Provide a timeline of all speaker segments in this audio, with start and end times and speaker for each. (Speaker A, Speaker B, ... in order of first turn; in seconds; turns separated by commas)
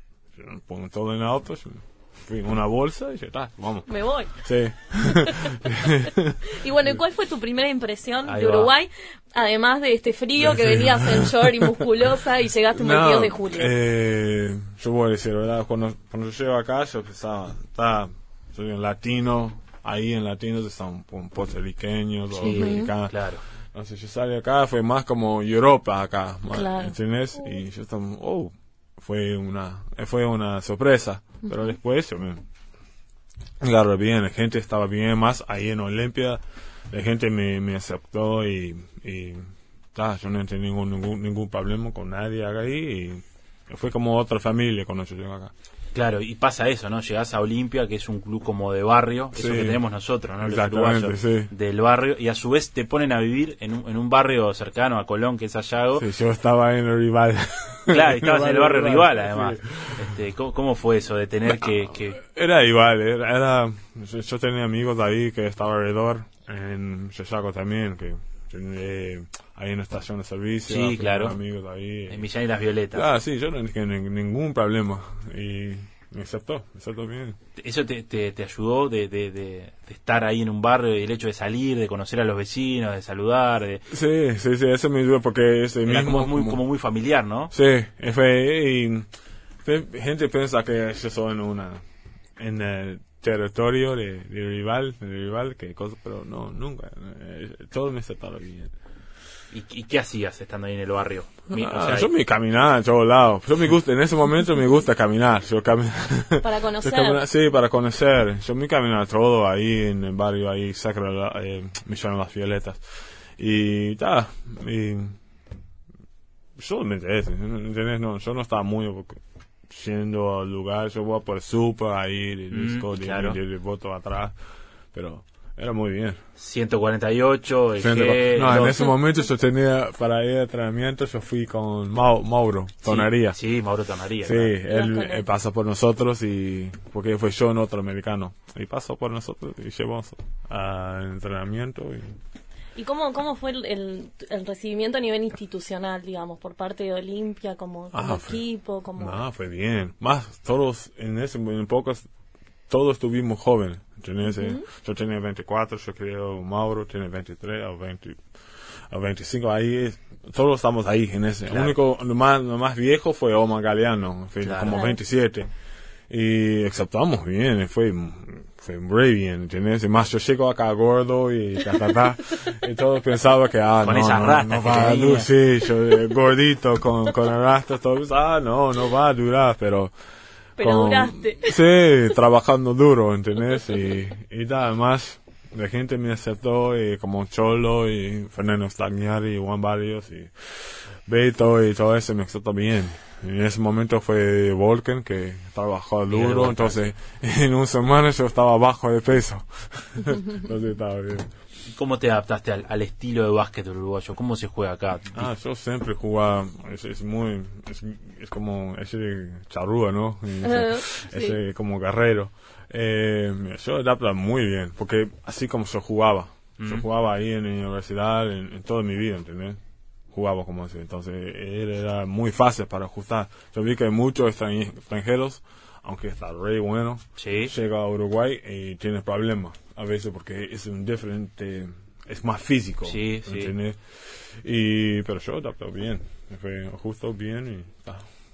Speaker A: 0.3-6.6, Speaker B: 3.9-4.4, Speaker B: 5.0-6.0, Speaker B: 6.5-13.7, Speaker C: 8.2-8.7, Speaker A: 10.4-11.7, Speaker A: 12.7-23.2, Speaker C: 22.4-23.4, Speaker B: 22.4-22.9, Speaker A: 23.7-32.4, Speaker B: 26.5-26.9, Speaker A: 33.6-45.5, Speaker C: 45.9-56.1, Speaker A: 49.3-49.8, Speaker A: 50.4-51.5, Speaker A: 56.0-60.1, Speaker C: 57.9-62.2, Speaker A: 61.5-72.3, Speaker C: 70.7-71.4, Speaker C: 72.1-73.1, Speaker A: 72.9-77.4, Speaker C: 77.6-83.8, Speaker A: 83.9-86.6, Speaker C: 85.8-87.5, Speaker A: 87.5-89.1, Speaker A: 89.6-91.8, Speaker A: 92.4-98.7, Speaker C: 99.5-102.1, Speaker A: 101.5-115.2, Speaker B: 106.4-107.2, Speaker A: 116.6-124.3, Speaker C: 122.5-123.4, Speaker A: 124.9-126.2, Speaker C: 126.4-128.9, Speaker A: 127.8-133.4, Speaker C: 132.8-134.5, Speaker A: 134.2-142.2, Speaker B: 134.7-135.2, Speaker B: 142.7-149.2, Speaker A: 147.9-148.4, Speaker A: 149.0-152.1, Speaker A: 152.7-158.2, Speaker B: 154.2-154.6, Speaker A: 158.9-165.5, Speaker C: 161.5-161.8, Speaker C: 164.4-164.8, Speaker B: 164.7-165.0, Speaker A: 166.1-179.9, Speaker C: 173.8-175.3, Speaker B: 180.6-181.6, Speaker A: 180.6-201.3, Speaker C: 196.1-196.9, Speaker C: 201.7-205.3, Speaker A: 205.1-219.6, Speaker B: 210.4-211.4, Speaker C: 216.6-216.8, Speaker A: 220.1-238.1, Speaker C: 227.2-227.5, Speaker C: 232.8-233.5